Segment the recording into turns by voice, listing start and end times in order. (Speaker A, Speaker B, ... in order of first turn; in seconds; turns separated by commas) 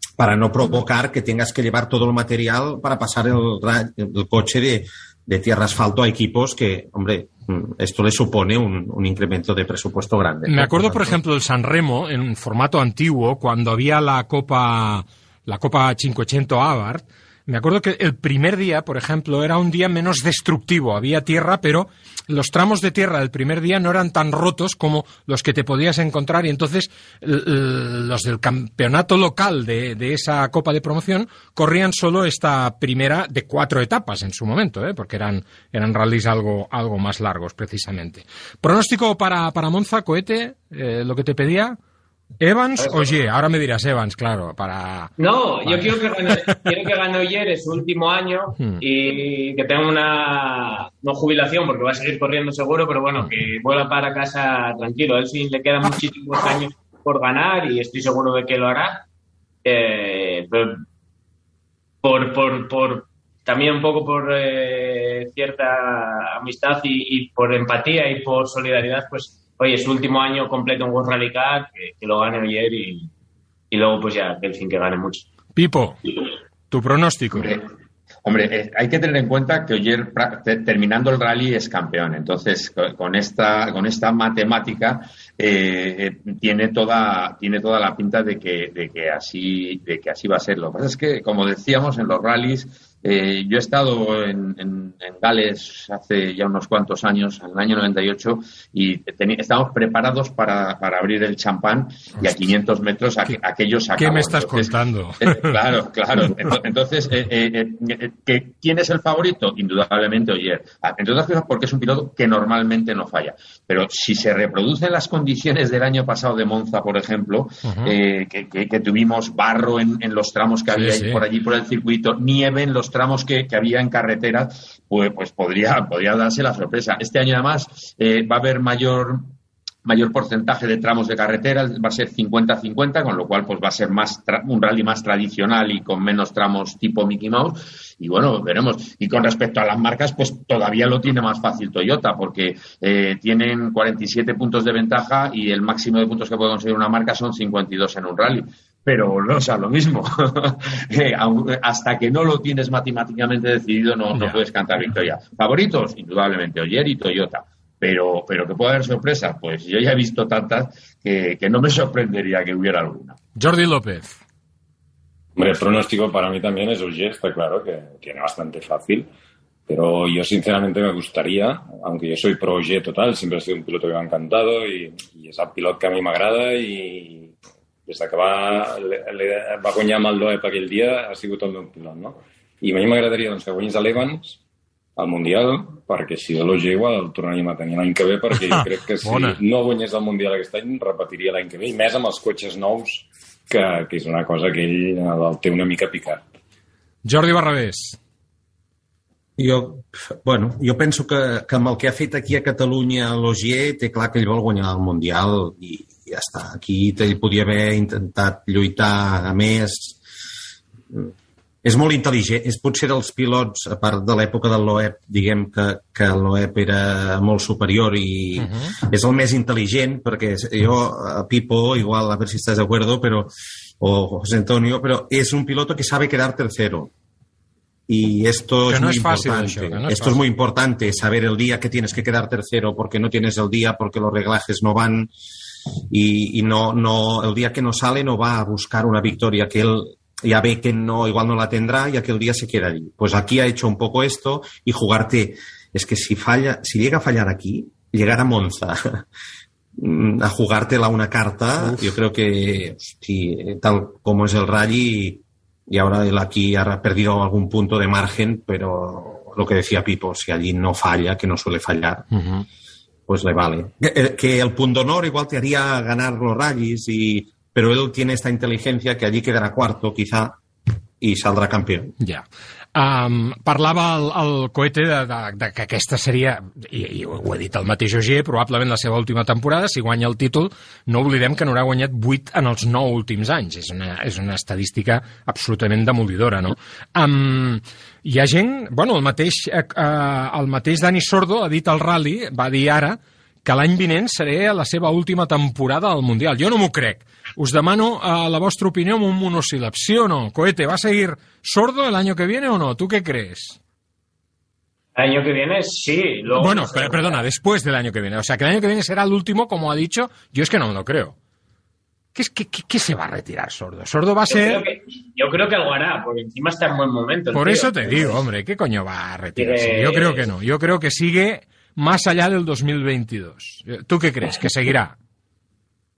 Speaker A: 0.2-11.2, Speaker B: 10.5-41.8, Speaker B: 42.4-45.1, Speaker C: 45.2-59.0, Speaker B: 45.6-46.7, Speaker C: 59.6-60.8, Speaker C: 62.0-73.1, Speaker C: 73.7-75.2, Speaker B: 75.5-76.0, Speaker B: 76.7-77.5, Speaker D: 77.3-77.7, Speaker D: 78.2-163.2, Speaker B: 104.0-105.6, Speaker B: 117.6-117.9, Speaker B: 120.7-121.2, Speaker B: 154.1-154.4, Speaker B: 163.4-164.2, Speaker E: 165.4-169.1, Speaker E: 169.7-177.3, Speaker E: 177.9-184.4, Speaker E: 185.0-196.2, Speaker B: 188.5-189.4, Speaker B: 197.0-198.0, Speaker A: 199.4-210.0, Speaker A: 210.9-226.9, Speaker B: 218.4-218.7, Speaker A: 227.9-235.1, Speaker B: 228.7-230.2, Speaker A: 235.9-249.1, Speaker A: 249.8-262.1, Speaker B: 262.1-262.4, Speaker A: 263.1-270.4, Speaker A: 271.0-271.9, Speaker B: 272.0-303.6, Speaker C: 304.9-307.1, Speaker B: 306.3-311.1, Speaker B: 312.1-314.6, Speaker C: 314.3-318.1, Speaker B: 317.3-324.9, Speaker C: 319.4-320.3